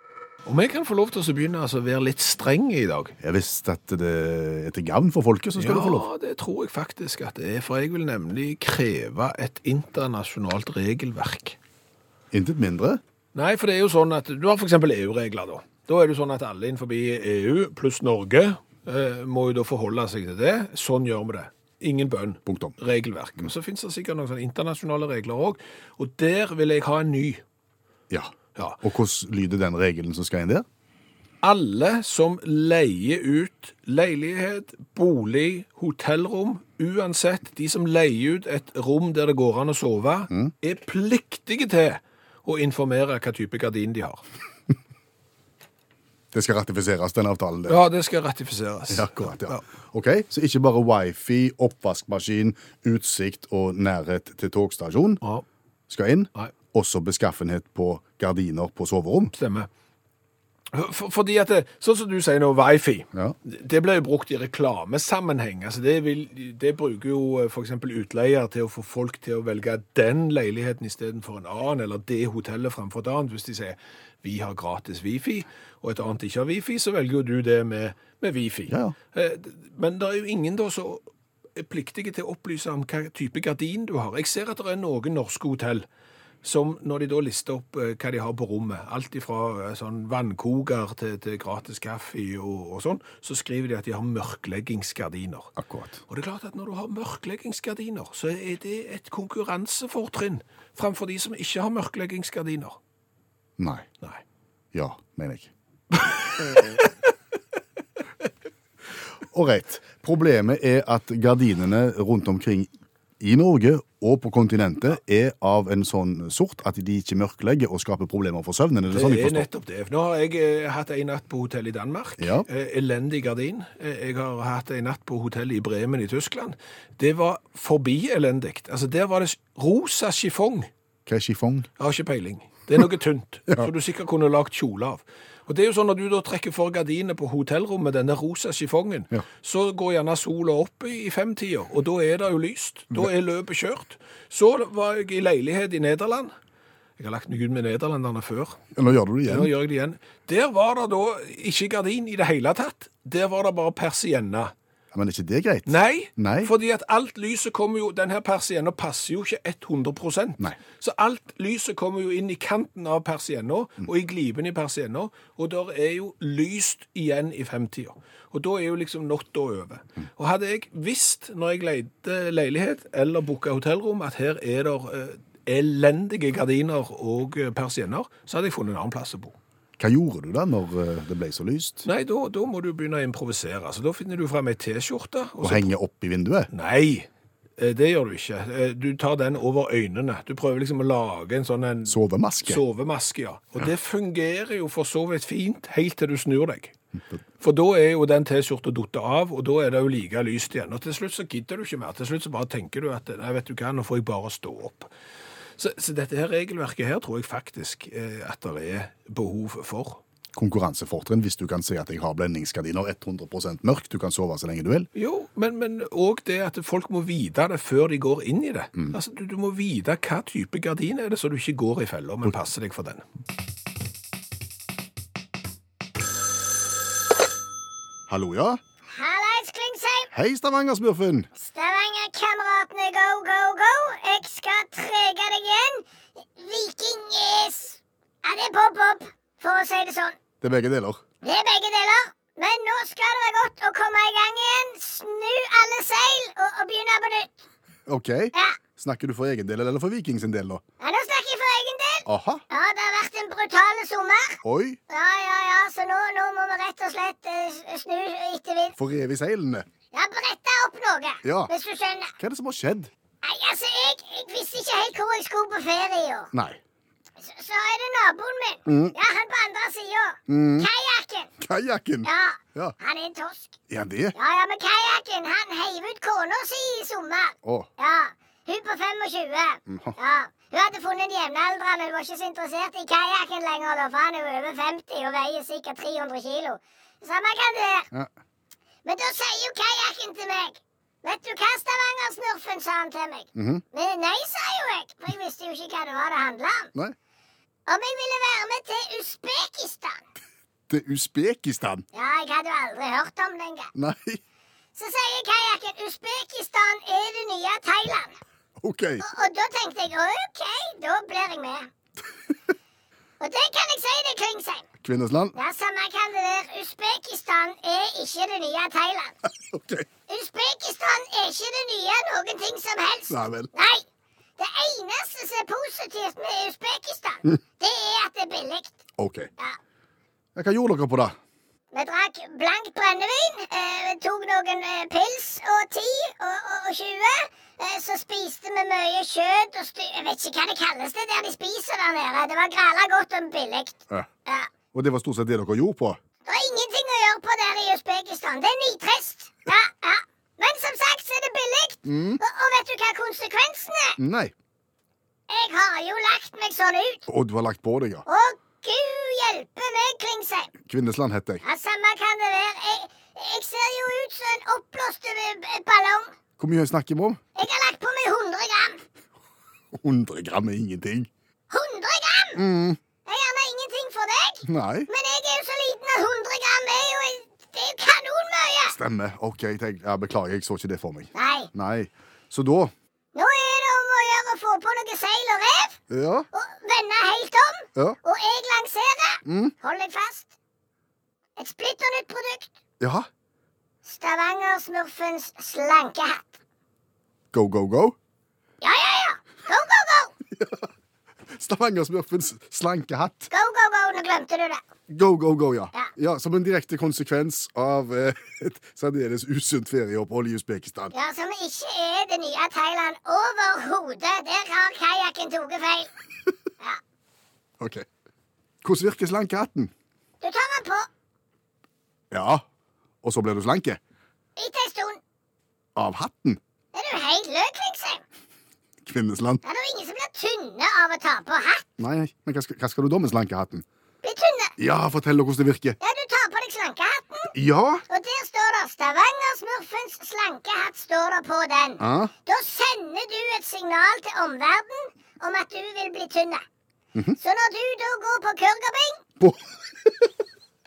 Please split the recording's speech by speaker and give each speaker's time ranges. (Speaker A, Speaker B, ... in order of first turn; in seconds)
Speaker A: 0.5-3.1, 5.6-11.6, 13.3-27.4, 28.6-28.8, 31.4-44.2, 47.7-49.6, 59.3-59.7, 60.7-81.0, 81.6-85.9, 86.4-95.6, 96.1-102.8, 106.4-106.9, 118.9-130.7, 131.8-146.3, 147.0-148.6, 149.3-154.5, 155.7-179.4, 181.8-185.7, 186.5-187.1, 187.6-196.8, 197.4-204.9, 205.6-210.0, 214.9-223.1
Speaker B: 3.2-6.1, 12.3-13.0, 22.5-22.8, 28.1-30.7, 46.3-47.8, 48.9-55.2, 55.9-59.3, 78.7-79.0, 95.6-96.0, 103.6-103.9, 104.7-105.5, 109.2-112.7, 113.2-119.5, 122.2-122.5, 131.1-131.7, 148.8-149.5, 154.9-156.5, 179.8-181.9, 185.4-186.5, 191.9-192.6, 210.3-214.9, 228.1-228.6, 230.1-231.3, 240.4-241.0, 247.9-250.6, 252.1-252.4, 254.4-254.8, 258.8-259.7, 261.2-261.5, 262.2-262.9, 266.3-266.6, 268.7-268.9, 270.3-270.7, 271.4-272.8, 273.7-274.1, 279.7-280.0, 293.4-293.6, 300.7-301.9, 303.8-304.2, 308.6-309.0, 314.8-315.4, 319.4-319.9, 323.1-323.5, 329.0-329.3, 330.4-331.2, 344.7-346.0, 351.9-352.2, 354.0-354.3, 357.1-358.1, 360.6-361.4, 366.4-367.2, 369.7-371.1, 372.4-372.8, 374.4-374.9, 378.7-382.7, 385.9-386.3, 389.3-389.5, 392.8-393.1, 397.3-398.0, 400.3-400.7, 401.3-403.3, 404.9-410.9, 417.6-417.9, 418.6-419.7, 422.1-422.4, 423.0-423.8, 425.8-426.4, 428.8-429.4, 431.8-433.7, 434.6-435.8, 437.3-437.8, 441.8-442.1, 446.9-447.2, 449.2-450.1
Speaker C: 228.9-230.1, 231.4-240.2, 241.2-247.4, 250.8-258.8, 259.9-262.1, 263.2-266.3, 267.2-271.3, 272.1-273.6, 274.1-287.9, 288.9-296.7, 297.7-300.0, 301.9-303.7, 304.8-308.2, 309.0-311.7, 313.2-314.7, 315.4-319.2, 320.1-323.9, 324.4-328.8, 331.7-344.5, 346.3-354.0, 355.3-357.1, 358.1-360.5, 361.4-366.1, 367.4-368.8, 371.5-372.4, 373.1-378.8, 381.1-381.5, 383.1-385.8, 386.3-390.3, 391.4-392.5, 393.9-396.4, 398.6-400.1, 403.3-404.6, 410.9-415.9, 420.2-420.9, 424.4-425.0, 426.7-428.0, 429.4-431.7, 434.0-434.5, 435.8-437.3, 437.9-446.4, 447.2-449.0